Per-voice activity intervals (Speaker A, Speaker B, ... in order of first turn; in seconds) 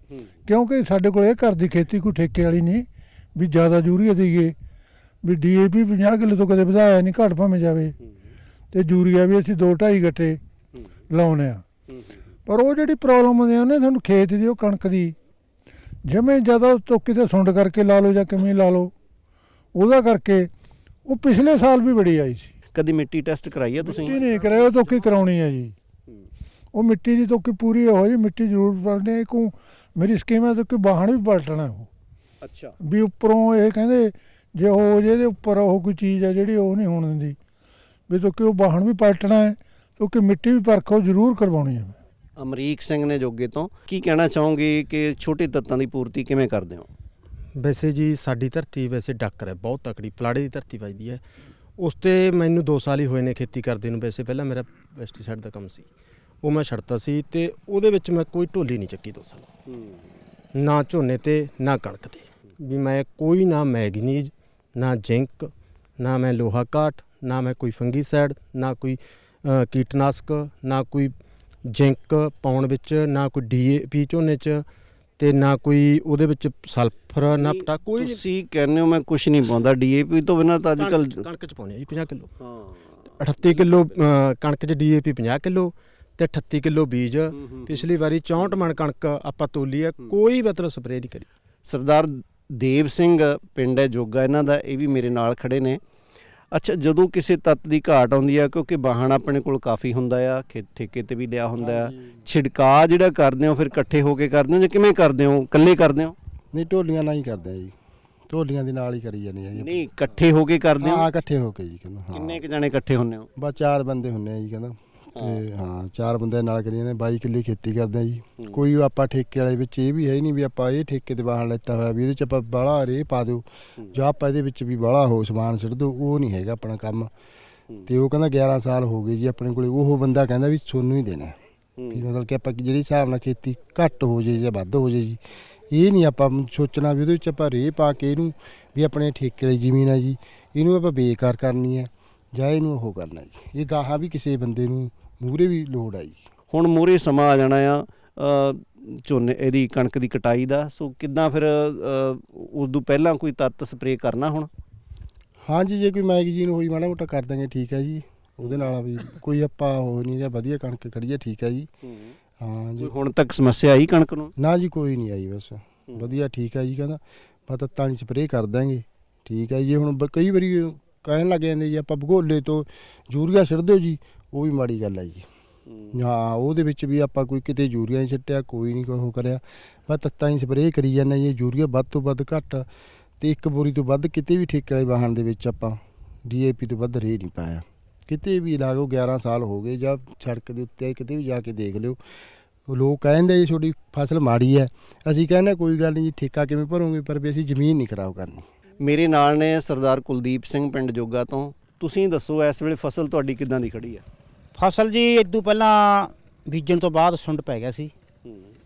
Speaker A: 0.5-4.5, 5.2-7.9, 8.7-10.4, 11.1-11.6, 12.5-15.1, 16.1-18.9, 19.7-20.5, 21.1-22.5, 23.8-25.7, 26.7-31.9, 32.8-37.4, 38.1-42.0
Speaker B: 22.7-25.2, 32.4-32.8, 42.4-46.9, 77.4-81.2, 82.4-82.7, 91.7-95.8, 96.5-106.1, 109.5-111.1, 112.1-113.3, 131.8-132.0, 146.5-154.5, 158.4-158.7, 161.8-162.1, 162.8-164.3, 165.9-166.2, 198.8-204.0
Speaker C: 47.5-51.2, 51.8-55.9, 56.4-59.5, 60.5-71.1, 71.7-74.6, 75.2-78.2, 80.8-82.3, 83.2-91.3
Speaker D: 106.5-107.7, 108.3-109.8, 110.8-112.4, 113.4-127.1, 127.9-131.3, 131.9-135.2, 135.7-146.2, 155.5-161.7, 162.4-162.9, 164.4-175.2, 175.9-182.7, 183.2-192.0, 192.7-198.4
Speaker E: 204.5-207.9